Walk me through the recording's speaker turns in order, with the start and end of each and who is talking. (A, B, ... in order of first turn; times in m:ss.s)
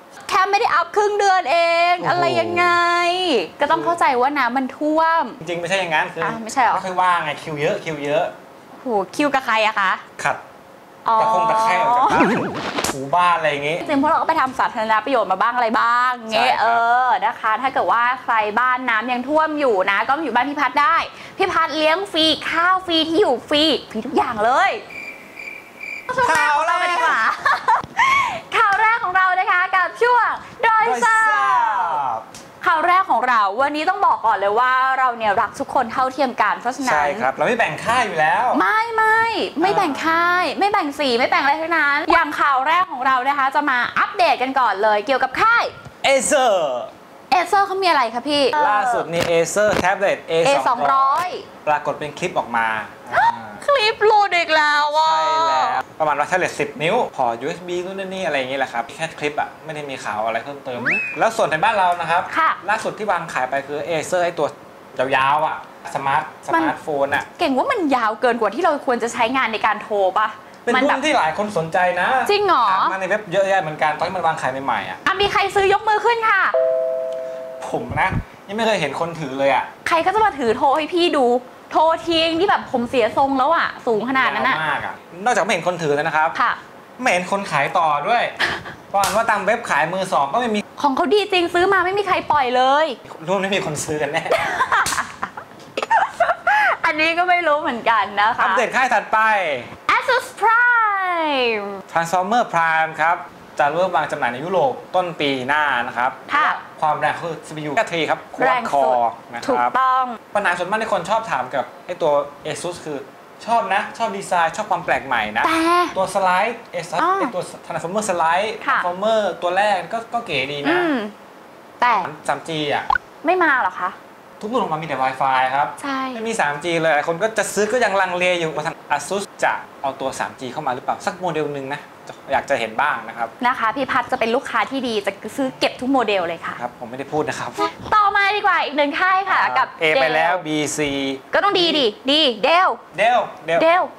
0:00.3-0:05.4 A
0:02.0-0:02.8 B
0:03.7-0:04.0 B
0:05.4-0:08.3 B
0:06.2-0:06.8 A
0:08.8-0:10.0 A
0:11.0-0:12.4 A
0:11.2-0:13.9 B
0:13.8-0:24.8 A
0:16.3-0:16.8 B
0:26.1-0:32.0 A
0:26.2-0:27.2 B
0:30.8-0:32.2 B
0:32.6-0:37.3 A
0:36.8-0:38.6 B
0:38.5-0:45.7 A
0:39.6-0:40.2 B
0:46.0-0:46.9 B
0:47.3-0:49.1 A
0:48.6-0:53.6 B
0:50.4-0:51.5 A
0:53.1-0:55.8 A
0:55.0-1:07.3 B
1:02.3-1:02.6 A
1:07.4-1:11.0 A
1:10.7-1:15.0 B
1:12.3-1:13.0 A
1:15.0-1:16.6 A
1:17.6-1:19.7 B
1:19.8-1:24.6 A
1:23.9-1:26.4 B
1:27.0-1:28.4 B
1:28.9-1:30.6 B
1:30.8-1:33.0 A
1:33.0-1:34.5 B
1:34.3-1:35.3 A
1:35.8-1:38.6 A
1:38.4-1:39.7 B
1:39.9-1:41.8 A
1:41.9-1:49.7 B
1:46.3-1:46.6 A
1:48.4-1:50.2 A
1:50.3-2:00.9 B
1:55.4-1:56.0 A
1:57.0-1:57.3 A
1:58.6-1:58.9 A
2:00.6-2:01.1 A
2:01.8-2:02.1 A
2:01.9-2:02.9 B
2:03.2-2:04.0 A
2:04.4-2:13.3 B
2:05.8-2:06.2 A
2:13.4-2:16.6 A
2:16.6-2:17.7 B
2:17.8-2:20.4 A
2:19.3-2:21.9 B
2:21.3-2:22.8 A
2:22.9-2:23.7 B
2:23.6-2:23.9 A